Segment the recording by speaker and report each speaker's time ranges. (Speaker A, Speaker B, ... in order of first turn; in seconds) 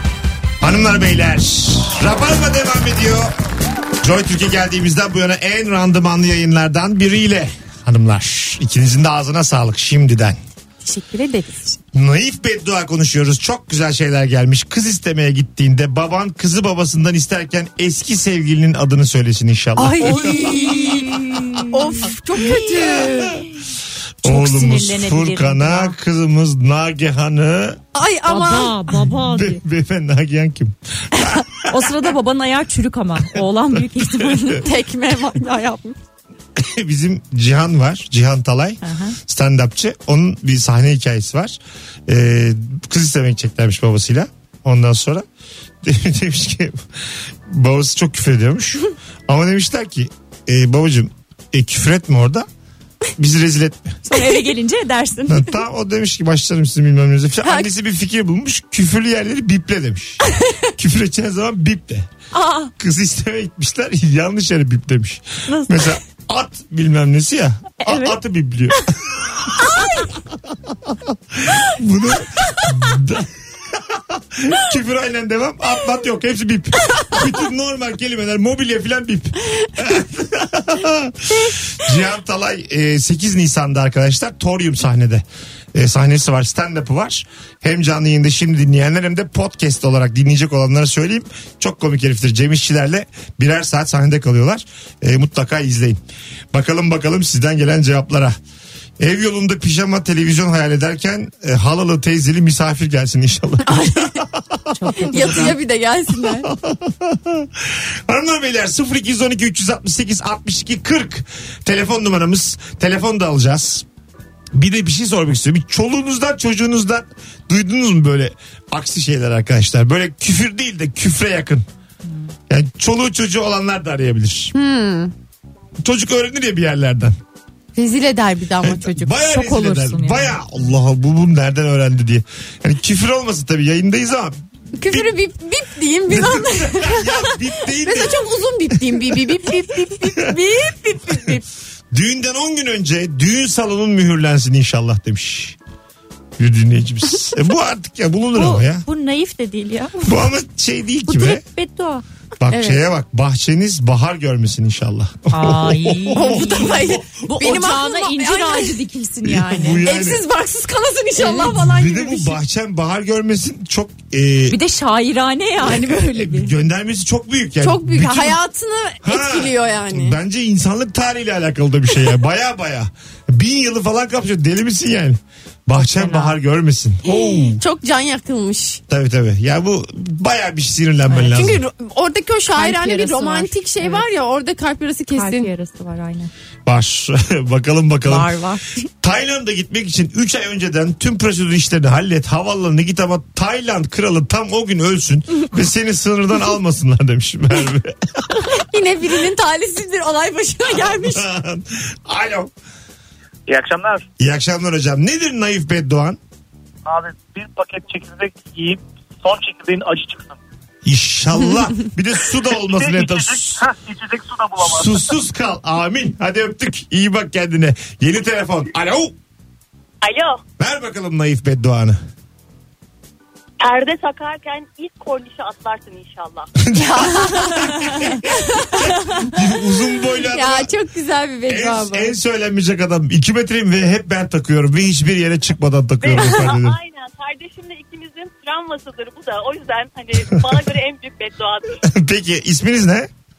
Speaker A: 0.6-3.3, 4.0-10.4, 11.9-21.6, 22.6-23.5, 24.2-27.8, 28.9-32.1, 33.3-34.5, 36.6-45.2, 45.8-52.5, 53.2-54.0, 55.3-60.2, 60.8-62.1, 62.8-96.0, 96.5-98.3, 99.0-105.5, 106.2-113.9, 114.5-121.7, 122.5-124.5, 125.8-127.2, 128.6-135.2, 136.1-139.2, 141.9-145.6, 146.4-148.9, 150.0-151.4, 152.4-157.1, 159.2-160.2, 161.5-164.6, 165.6-168.4, 169.0-177.6, 178.9-181.6, 186.7-188.3, 189.0-198.4, 200.7-202.5, 204.2-206.2, 210.8-213.7, 214.6-219.2, 220.6-222.0, 226.6-230.7, 231.5-236.8, 241.8-243.1
Speaker B: 10.8-11.8, 19.8-21.1, 21.7-23.4, 27.9-28.9, 34.5-36.0, 103.7-104.2, 105.0-106.5, 124.5-125.1, 127.8-129.4, 134.8-141.4, 152.5-152.8, 156.1-158.8, 159.8-162.4, 167.6-170.2, 177.6-178.8, 181.3-185.5, 188.1-188.6, 198.4-201.3, 226.7-228.8, 230.3-232.1
Speaker C: 20.0-22.9, 24.2-25.9, 28.3-29.6, 31.6-34.7, 38.8-39.2, 54.0-55.6, 62.3-62.7, 65.5-66.0, 67.8-68.2, 69.6-70.1, 104.7-105.6, 122.1-122.3, 129.3-130.4, 148.3-150.3, 151.1-152.0, 155.3-159.9, 161.2-161.5, 164.5-166.5, 175.8-176.3, 181.1-181.6, 182.5-184.1, 185.1-186.3, 227.4-228.1
Speaker D: 203.5-204.1, 206.9-210.4, 212.5-215.1
Speaker E: 220.0-220.4, 223.6-226.5, 236.0-241.8